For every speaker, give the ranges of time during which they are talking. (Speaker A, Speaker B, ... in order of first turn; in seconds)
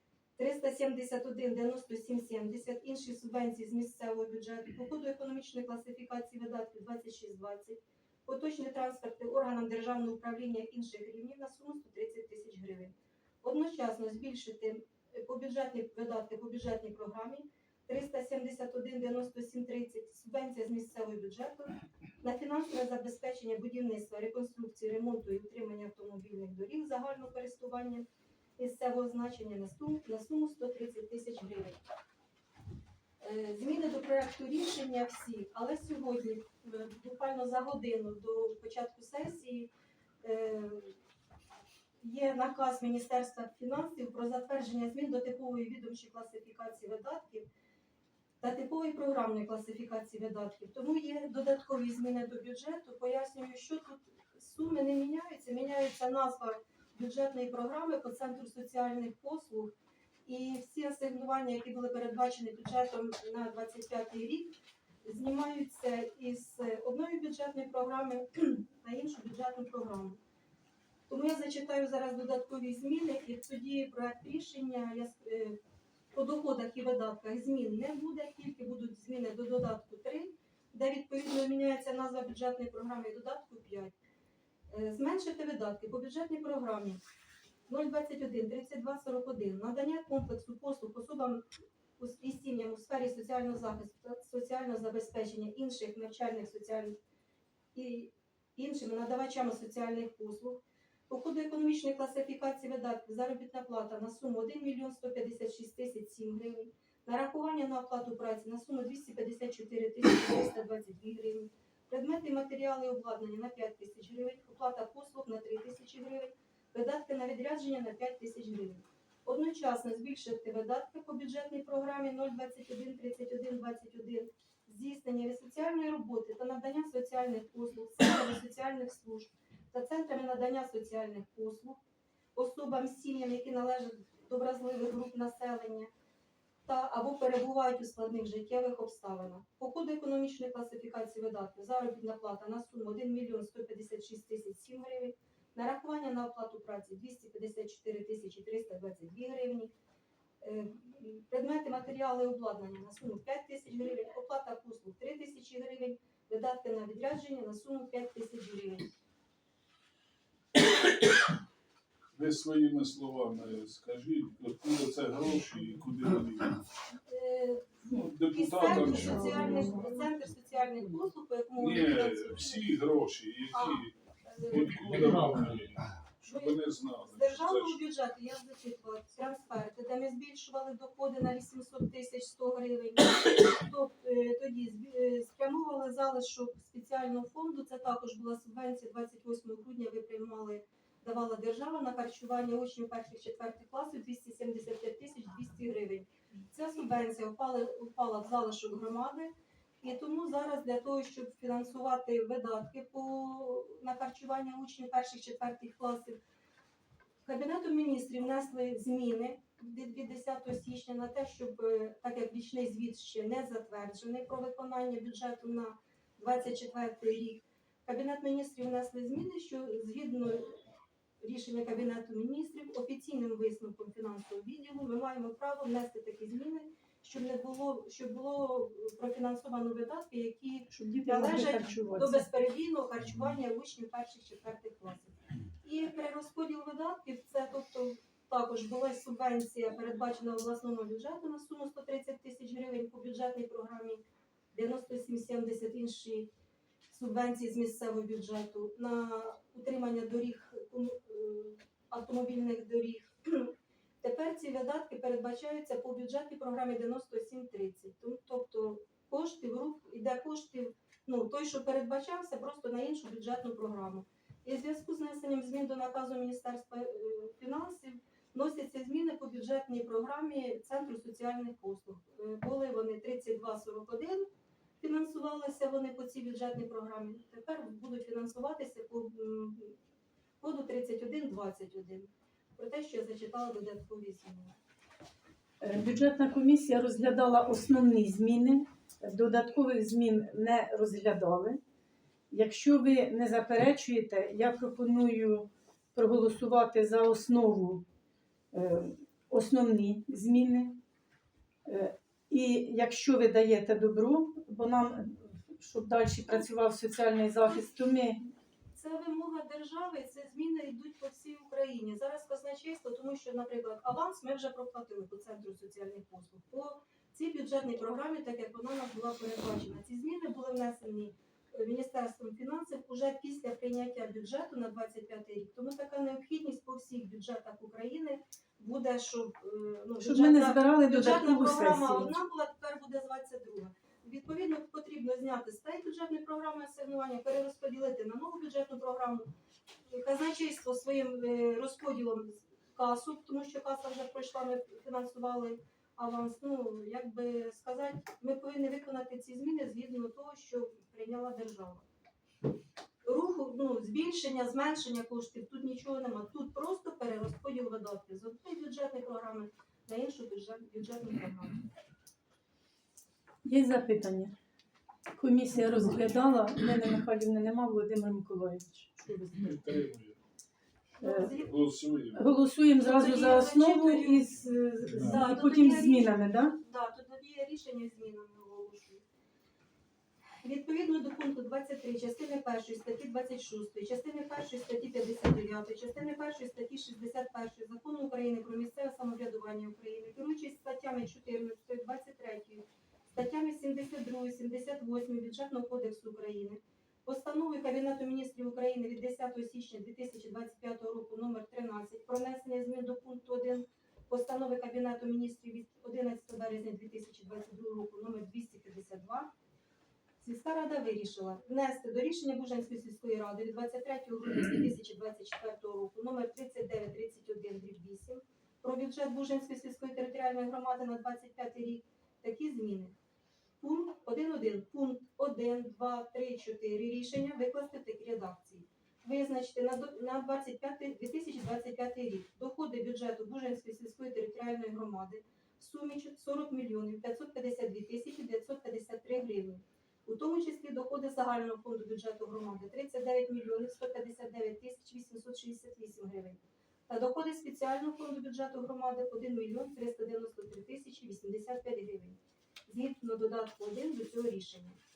Speaker A: 0.4-31.8, 33.2-39.7, 40.2-41.0, 42.0-47.5, 48.4-59.7, 60.2-70.2, 71.1-75.6, 76.1-83.9, 84.7-87.0, 87.7-91.4, 92.0-97.0, 97.7-131.8, 132.3-135.9, 136.7-149.7, 150.4-158.9, 167.1-172.7, 173.5-175.4, 176.2-206.2, 207.2-220.6, 221.2-244.0, 244.5-246.3, 246.9-274.3, 274.8-279.8, 280.4-284.6, 308.7-339.3, 339.9-351.8, 353.0-361.6, 371.0-371.6, 372.8-374.3, 375.0-379.0, 380.4-409.3, 410.2-422.9, 423.6-454.8
Speaker B: 162.1-166.6, 167.9-169.9, 171.6-173.9, 174.4-177.8, 369.4-370.2, 371.3-372.2
Speaker C: 230.7-232.3, 285.6-291.6, 292.3-297.8, 298.5-300.8, 301.6-308.2, 330.0-332.1, 363.4-364.3, 365.1-369.6, 371.0-371.3, 372.1-376.5